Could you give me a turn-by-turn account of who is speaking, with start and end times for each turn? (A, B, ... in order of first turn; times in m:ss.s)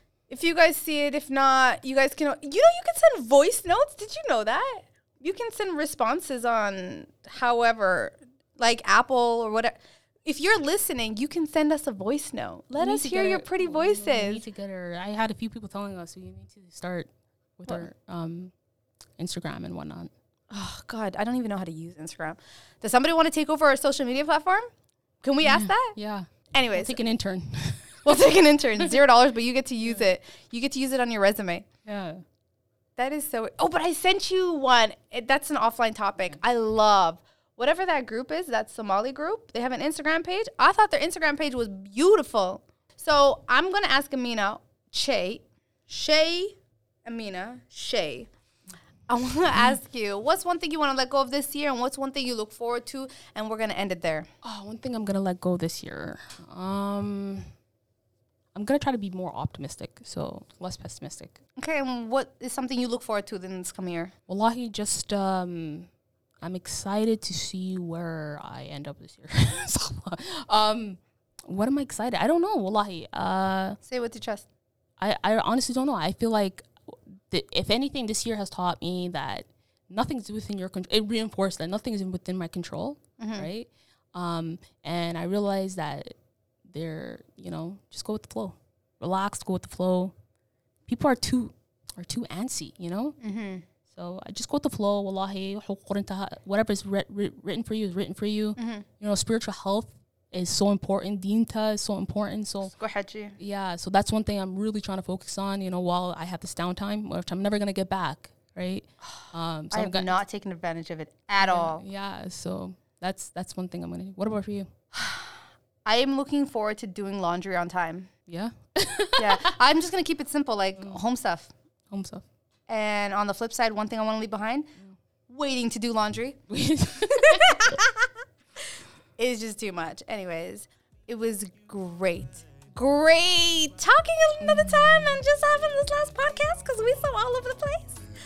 0:00.3-0:14.5 A
0:12.8-0:18.5 B
0:19.2-0:20.1 B
0:20.5-0:24.7 A
0:25.2-0:25.9 A
0:25.4-0:28.2 B
0:26.5-0:27.0 A
0:28.0-0:31.7 A
0:31.9-0:32.2 B
0:33.0-0:48.3 A
0:49.1-0:54.3 A
0:54.4-0:57.5 B
0:58.5-1:01.4 B
1:01.6-1:04.1 A
1:04.3-1:05.9 B
1:06.4-1:13.8 B
1:13.8-1:14.5 A
1:15.0-1:26.1 B
1:23.2-1:23.5 A
1:26.7-1:30.1 B
1:30.9-1:33.2 B
1:33.2-1:33.6 A
1:33.9-1:42.7 B
1:38.6-1:38.8 A
1:42.7-1:43.4 A
1:43.4-1:50.2 B
1:49.7-1:51.8 A
1:51.4-1:54.7 B
1:54.9-1:58.1 A
1:58.3-1:59.6 B
1:59.2-2:01.5 A
2:01.9-2:02.2 B
2:02.7-2:04.7 A
2:05.3-2:06.4 A
2:06.5-2:07.8 B
2:07.0-2:08.1 A
2:09.2-2:18.0 A
2:14.4-2:15.2 B